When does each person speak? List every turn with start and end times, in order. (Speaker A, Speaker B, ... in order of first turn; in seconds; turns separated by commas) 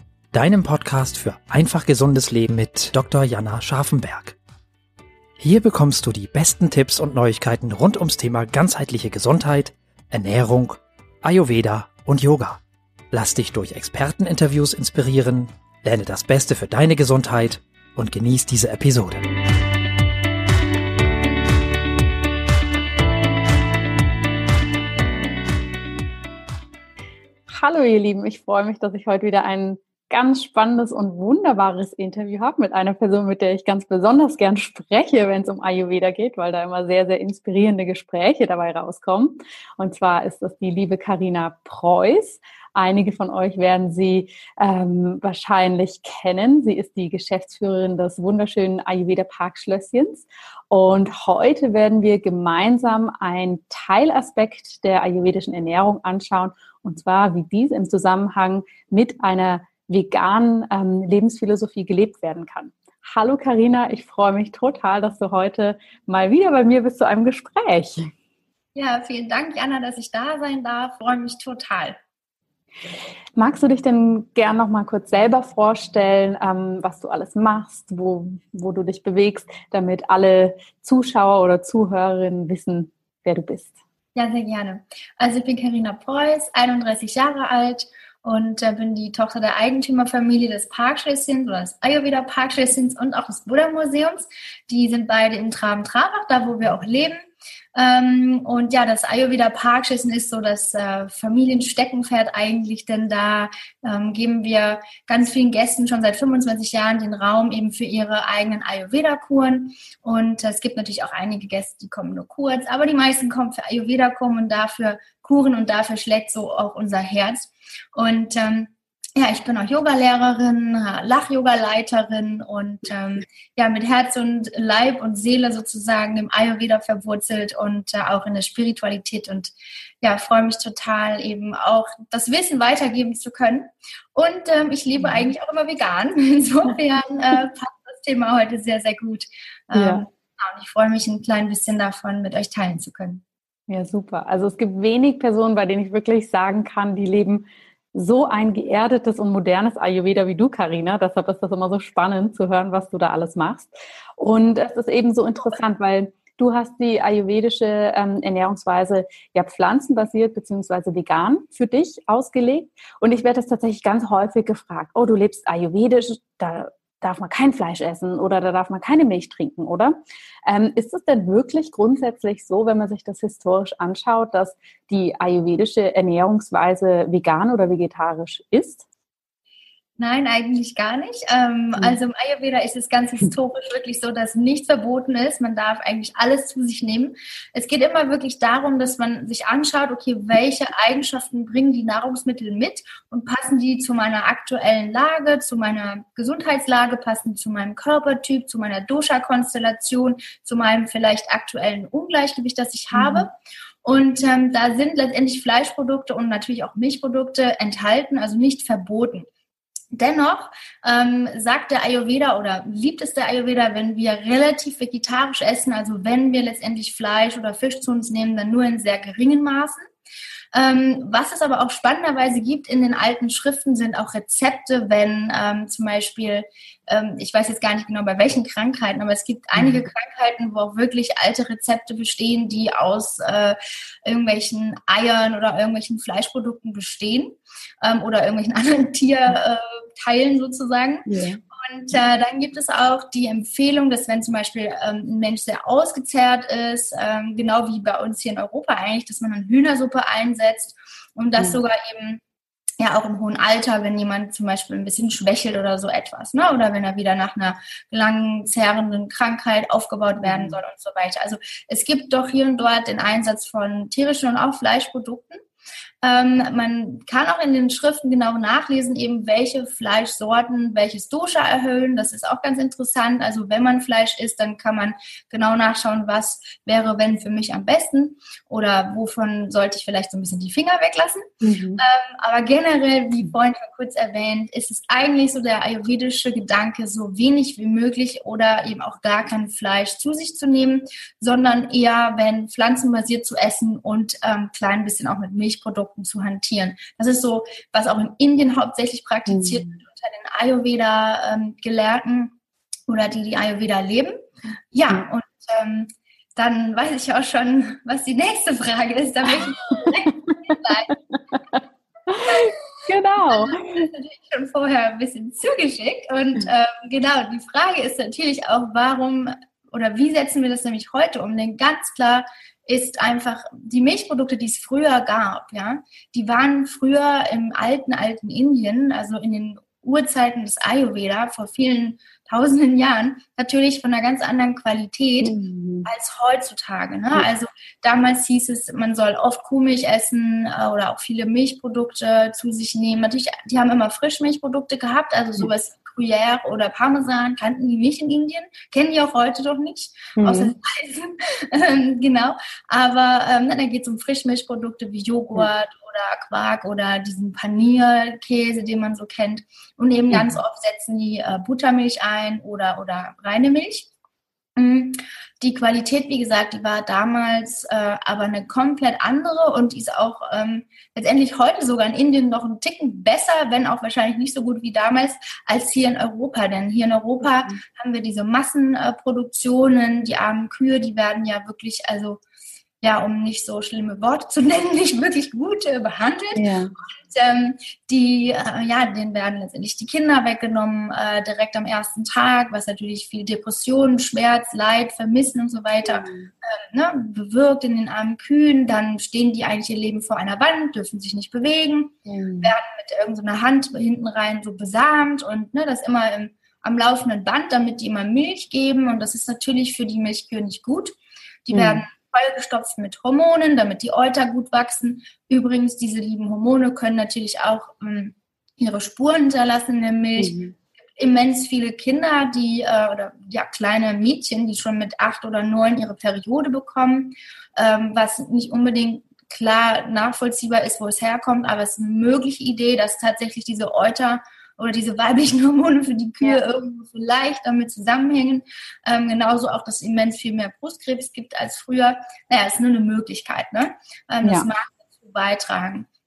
Speaker A: 0.3-4.3, Speaker A: 5.4-19.3, Speaker B: 27.5-68.1, Speaker C: 68.7-72.0, Speaker B: 73.4-83.7, Speaker C: 84.1-97.2, Speaker C: 97.7-143.2, Speaker B: 135.0-135.3, Speaker B: 139.7-140.1, Speaker B: 143.7-178.8, Speaker C: 180.0-203.3, Speaker B: 202.9-203.3, Speaker C: 203.8-209.3, Speaker C: 209.9-219.9, Speaker C: 220.5-252.2, Speaker B: 229.6-229.8, Speaker B: 241.1-241.4, Speaker C: 252.8-265.4, Speaker B: 260.2-260.6, Speaker C: 266.0-281.2, Speaker B: 281.4-281.8, Speaker C: 281.8-302.3, Speaker B: 299.3-299.7, Speaker C: 302.9-304.2, Speaker C: 304.7-310.9, Speaker B: 312.1-313.9, Speaker C: 312.2-363.9, Speaker B: 335.2-335.9, Speaker B: 350.2-350.5, Speaker B: 360.1-360.4, Speaker C: 364.6-382.2, Speaker C: 382.8-410.9, Speaker B: 386.3-386.7, Speaker B: 395.9-396.3, Speaker B: 402.0-402.5, Speaker C: 411.4-420.4, Speaker B: 411.5-411.8, Speaker B: 420.2-420.5, Speaker C: 421.0-445.9